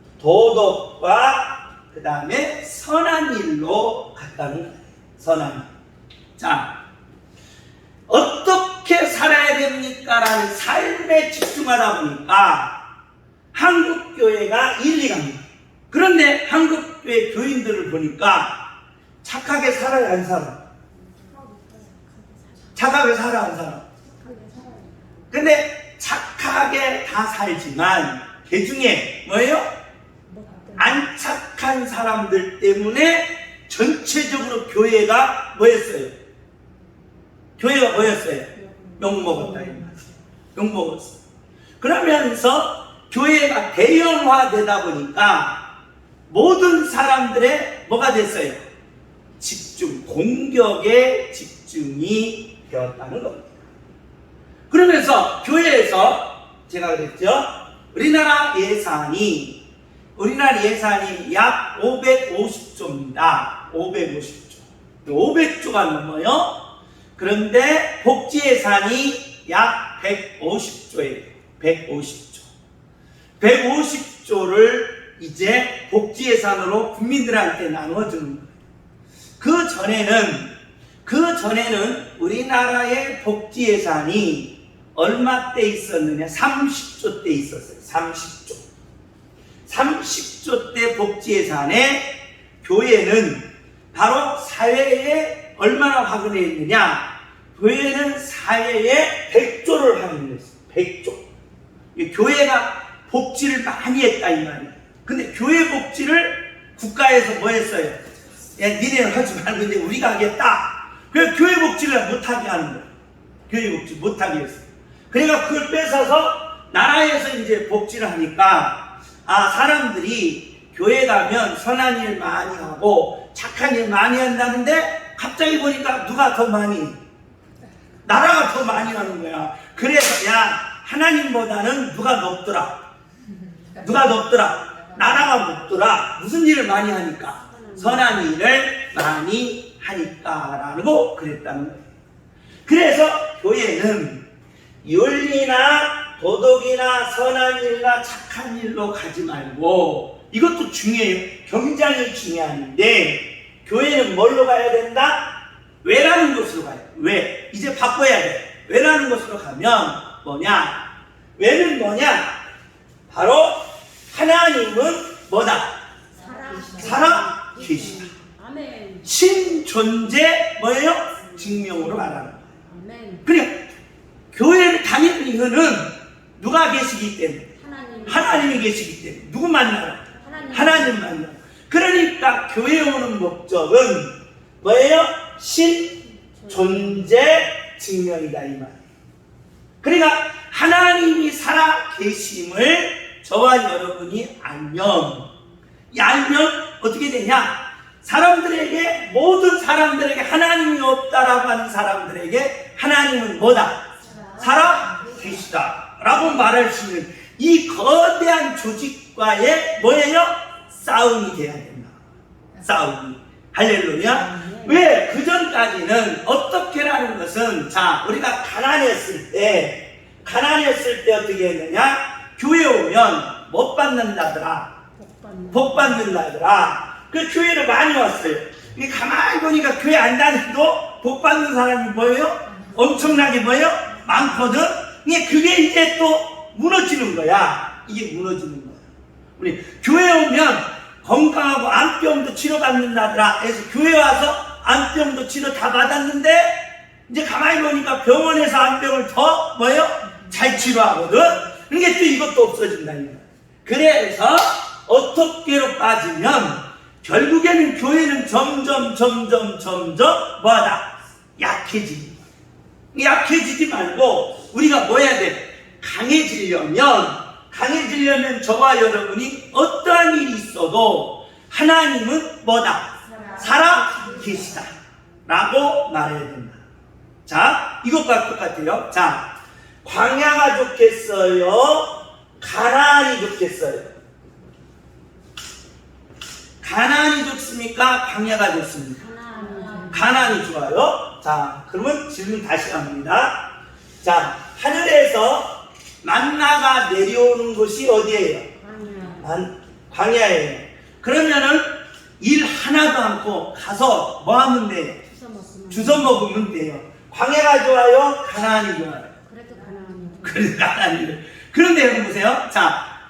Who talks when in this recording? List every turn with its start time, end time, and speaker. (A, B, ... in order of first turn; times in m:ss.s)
0:00.2-0:05.7 A
0:06.4-0:06.7 A
0:08.1-0:12.7 A
0:13.5-0:18.6 A
0:19.2-0:20.6 A
0:21.2-0:22.7 B
0:22.8-0:23.8 A
0:24.2-0:24.9 B
0:25.3-0:29.7 A
0:30.3-0:31.0 B
0:30.8-0:36.1 A
0:37.6-0:40.0 A
0:40.5-0:41.2 A
0:41.8-0:45.6 A
0:46.3-0:48.6 A
0:49.4-0:53.6 A
0:54.7-0:59.6 A
1:00.2-1:06.6 A
1:07.2-1:12.5 A
1:13.4-1:18.5 A
1:19.4-1:20.5 A
1:21.0-1:28.6 A
1:29.7-1:41.2 A
1:41.9-1:48.0 A
1:48.6-1:52.9 A
1:53.5-2:07.0 A
2:08.0-2:12.8 A
2:13.8-2:21.9 A
2:17.5-2:18.2 B
2:22.6-2:24.2 A
2:24.8-2:40.8 A
2:41.4-2:42.4 A
2:43.1-2:45.8 A
2:46.2-2:49.1 B
2:46.8-2:48.1 A
2:49.0-2:52.4 A
2:52.6-2:53.2 B
2:53.2-2:53.6 A
2:54.3-2:57.5 A
2:57.6-2:58.6 B
2:58.0-3:06.0 A
3:00.2-3:01.0 B
3:06.4-3:07.0 B
3:06.5-3:08.8 A
3:09.8-3:15.3 A
3:15.9-3:32.0 A
3:32.6-3:44.7 A
3:34.0-3:34.8 B
3:45.0-3:46.0 B
3:45.5-3:58.8 A
3:59.4-4:22.2 A
4:22.9-4:34.7 A
4:33.1-4:34.6 B
4:35.2-4:36.6 A
4:37.3-4:39.3 A
4:39.8-4:43.9 A
4:46.6-4:49.0 A
4:49.0-4:50.4 B
4:49.9-4:53.5 A
4:54.0-4:58.5 A
4:58.6-4:59.2 B
4:59.2-5:05.0 A
5:05.1-5:06.2 B
5:05.7-5:09.2 A
5:09.2-5:10.5 B
5:10.2-5:12.8 A